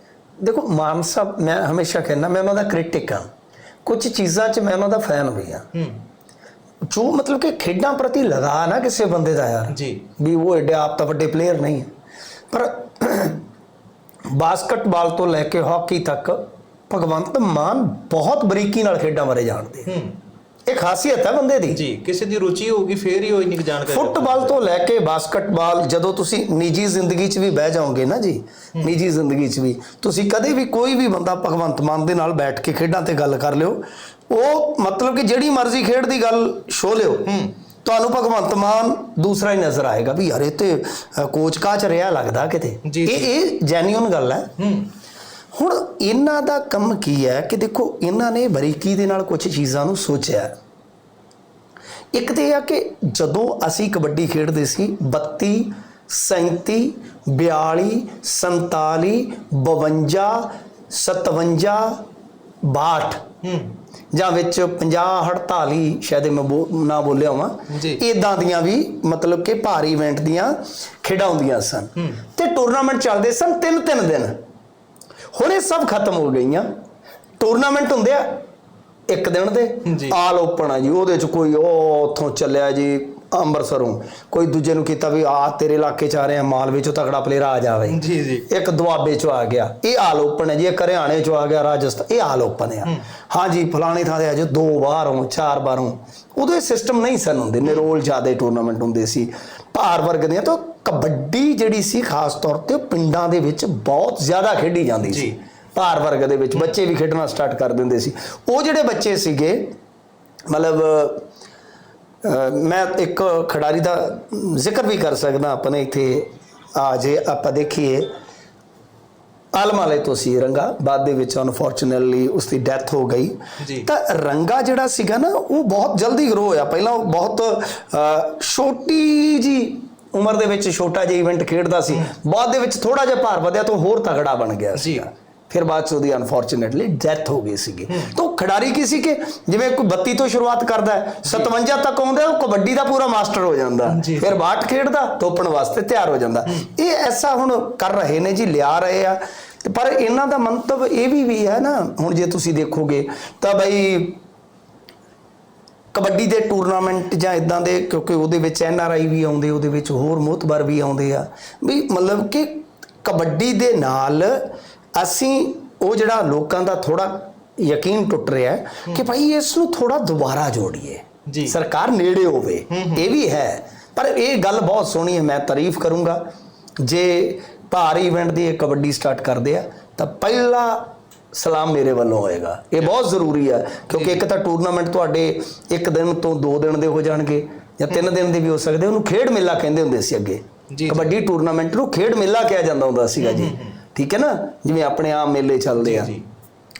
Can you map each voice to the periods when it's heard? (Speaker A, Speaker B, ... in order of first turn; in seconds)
Speaker A: 0.4-3.3, 3.9-5.7, 6.9-11.9, 12.5-13.4, 14.3-19.9, 20.7-21.8, 23.9-37.3, 37.8-44.5, 45.5-50.5, 52.1-62.0, 62.6-63.2, 64.1-74.4, 75.3-76.7, 77.4-78.4, 79.1-109.7, 110.5-111.2, 112.2-118.1, 119.5-154.2, 155.9-176.2, 176.8-196.1
Speaker B: 5.7-6.0, 9.7-10.1, 19.9-20.2, 21.7-24.6, 37.2-37.5, 42.9-43.3, 44.6-44.9, 63.4-63.8, 67.7-68.0, 72.0-72.2, 79.8-80.2, 87.9-88.5, 105.1-105.4, 123.6-123.9, 131.9-132.1, 134.8-135.1, 141.2-141.5, 143.9-144.4, 171.3-171.6, 172.7-173.1, 183.9-184.2, 190.7-191.2, 193.2-193.8, 195.8-196.2